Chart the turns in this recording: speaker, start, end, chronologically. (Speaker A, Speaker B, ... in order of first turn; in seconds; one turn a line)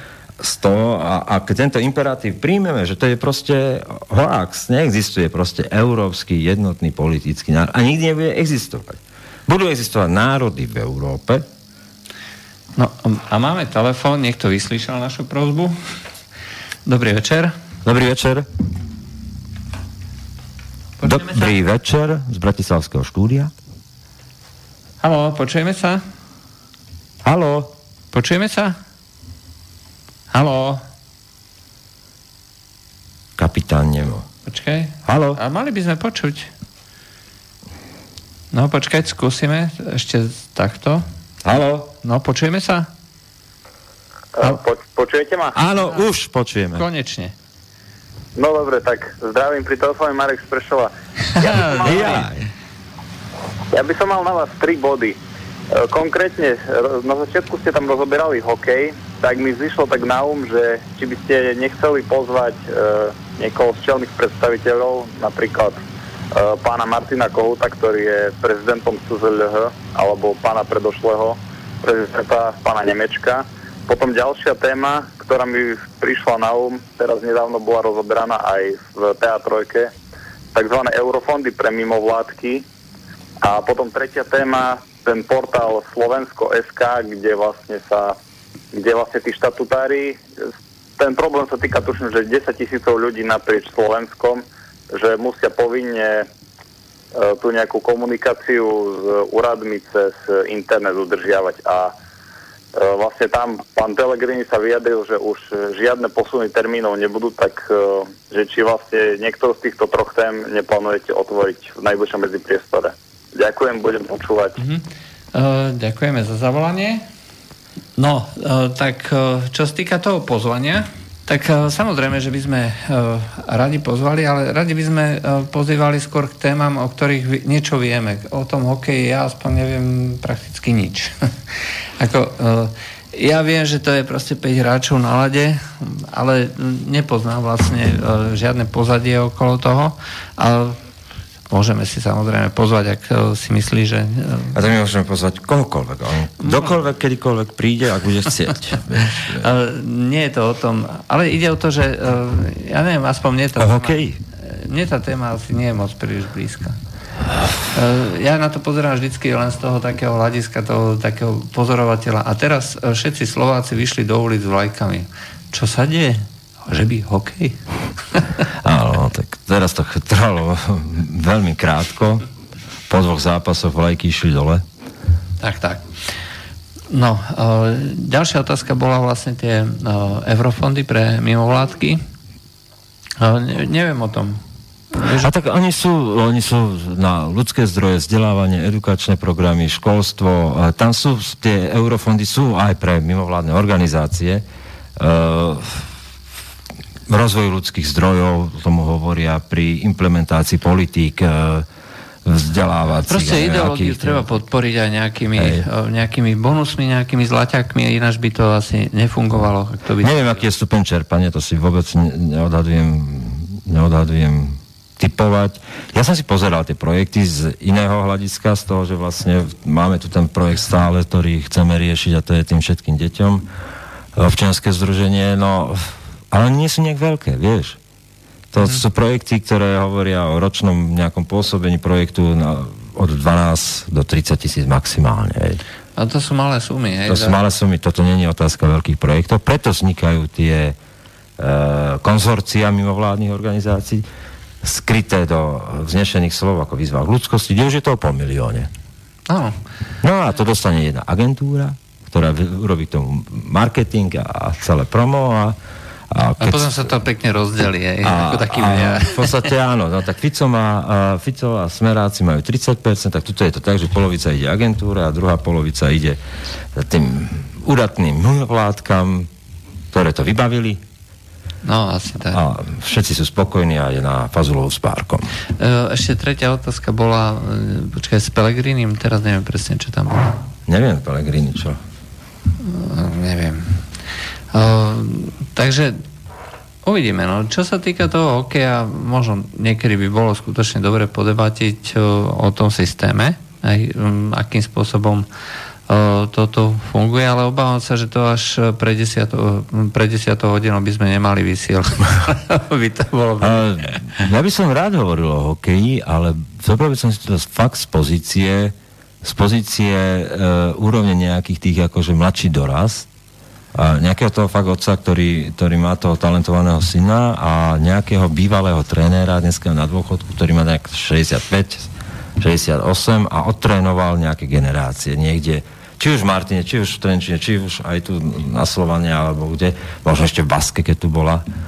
Speaker A: 0.4-11.4
Speaker B: 12.8-15.8
Speaker B: 16.9-17.5
Speaker A: 17.8-18.4
Speaker B: 21.0-21.6
Speaker A: 21.0-23.5
Speaker B: 25.0-26.0
Speaker A: 27.2-27.7
Speaker B: 28.1-28.8
Speaker B: 30.3-30.8
Speaker A: 33.4-34.2
Speaker B: 34.5-36.5
Speaker A: 35.0-35.4
Speaker B: 38.5-41.0
Speaker A: 41.4-41.9
Speaker B: 42.0-42.9
Speaker C: 44.4-45.5
Speaker A: 45.5-46.8
Speaker B: 46.7-47.3
Speaker C: 48.3-52.0
Speaker B: 51.3-52.3
Speaker A: 51.4-52.5
Speaker C: 53.7-55.2
Speaker C: 55.7-65.8
Speaker C: 66.3-79.9
Speaker C: 80.5-82.6
Speaker C: 83.4-88.1
Speaker C: 88.7-90.2
Speaker C: 91.0-96.3
Speaker C: 97.1-101.9
Speaker C: 102.7-114.6
Speaker B: 114.6-117.0
Speaker B: 118.0-131.1
Speaker B: 132.0-140.8
Speaker B: 141.5-144.5
Speaker A: 144.5-149.5
Speaker B: 146.4-146.7
Speaker B: 149.3-156.8
Speaker A: 153.6-154.2
Speaker B: 157.7-167.6
Speaker A: 168.6-172.2
Speaker A: 172.9-174.6
Speaker B: 175.4-175.9
Speaker B: 176.9-182.0
Speaker B: 183.2-184.4
Speaker B: 184.9-185.3
Speaker A: 185.1-194.4
Speaker A: 195.0-195.9
Speaker A: 197.1-201.7
Speaker A: 202.2-204.3
Speaker B: 203.0-210.4
Speaker A: 205.4-205.6
Speaker A: 210.0-223.4
Speaker A: 224.2-227.8
Speaker A: 228.5-235.6
Speaker B: 236.0-237.4
Speaker A: 237.1-240.8
Speaker A: 241.4-244.0
Speaker A: 244.6-248.7
Speaker B: 249.3-249.6
Speaker A: 250.0-255.6
Speaker A: 256.1-256.8
Speaker B: 256.4-259.5
Speaker A: 258.0-266.2
Speaker A: 266.7-269.3
Speaker A: 269.9-270.8
Speaker B: 271.6-272.4
Speaker A: 272.3-275.3
Speaker B: 275.6-280.4
Speaker A: 280.7-281.8
Speaker B: 282.6-283.8
Speaker B: 284.5-286.0
Speaker B: 286.8-295.3
Speaker B: 295.9-303.9
Speaker A: 303.4-313.1
Speaker A: 313.7-331.4